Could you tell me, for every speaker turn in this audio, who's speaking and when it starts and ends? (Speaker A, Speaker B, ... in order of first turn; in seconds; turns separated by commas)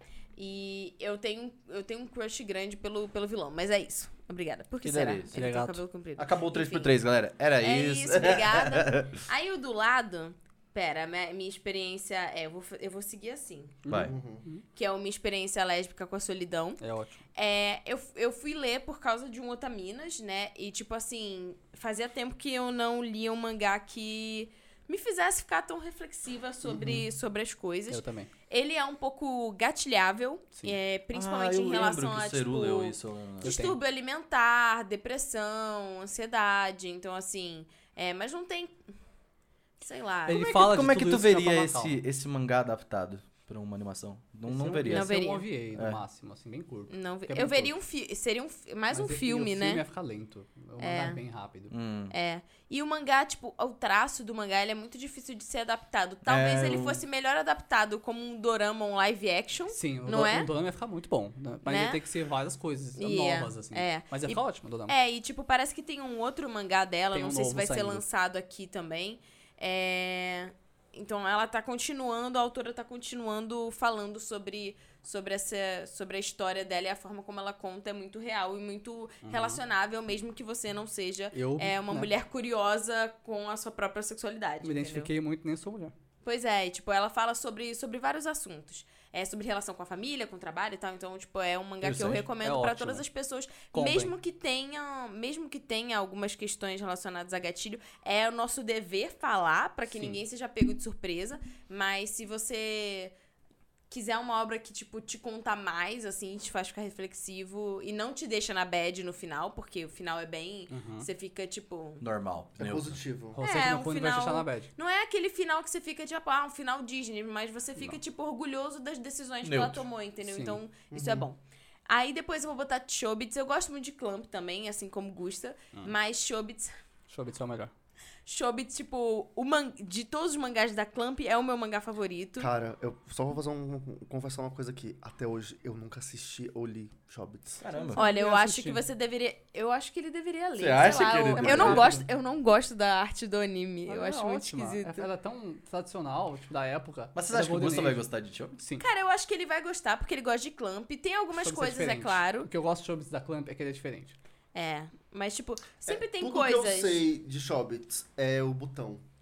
Speaker A: 0.4-6.9, Speaker B: 4.8-5.5, Speaker C: 5.4-5.8, Speaker B: 6.2-9.2, Speaker A: 7.6-13.8, Speaker C: 13.8-14.6, Speaker B: 13.9-14.1, Speaker D: 14.0-14.4, Speaker A: 14.7-16.8, Speaker C: 16.8-17.2, Speaker A: 17.4-38.8, Speaker C: 26.7-27.0, Speaker C: 27.9-28.3, Speaker B: 31.1-33.5, Speaker C: 33.4-33.8, Speaker A: 39.8-40.5, Speaker C: 40.3-42.0, Speaker B: 40.3-45.2, Speaker C: 44.5-47.7, Speaker A: 44.9-45.5, Speaker B: 45.7-46.0, Speaker A: 46.9-49.8, Speaker C: 48.9-51.7, Speaker A: 50.8-51.2, Speaker B: 51.7-52.1, Speaker A: 52.1-60.5, Speaker B: 56.2-57.0, Speaker C: 59.7-65.0, Speaker A: 61.6-62.0, Speaker A: 63.0-85.1, Speaker C: 67.1-68.0, Speaker C: 79.2-79.6, Speaker C: 81.3-82.1, Speaker C: 84.6-85.9, Speaker A: 86.2-103.1, Speaker B: 91.8-92.2, Speaker C: 92.3-93.0, Speaker C: 93.7-94.1, Speaker C: 99.9-100.2, Speaker A: 103.9-112.0, Speaker C: 110.7-111.1, Speaker B: 112.0-113.0, Speaker D: 112.6-113.4, Speaker C: 113.4-114.7, Speaker A: 113.4-126.7, Speaker B: 119.4-119.8, Speaker C: 120.2-120.6, Speaker D: 120.9-121.3, Speaker C: 127.1-127.7, Speaker A: 128.3-132.5, Speaker D: 132.4-137.6, Speaker B: 137.6-138.0, Speaker C: 137.8-138.8, Speaker A: 137.9-145.1, Speaker B: 140.6-141.9, Speaker C: 141.4-142.1, Speaker C: 143.9-148.0, Speaker B: 147.2-148.6, Speaker C: 148.6-148.8, Speaker A: 148.8-152.5, Speaker C: 151.3-154.2, Speaker A: 154.5-157.0, Speaker D: 155.9-159.0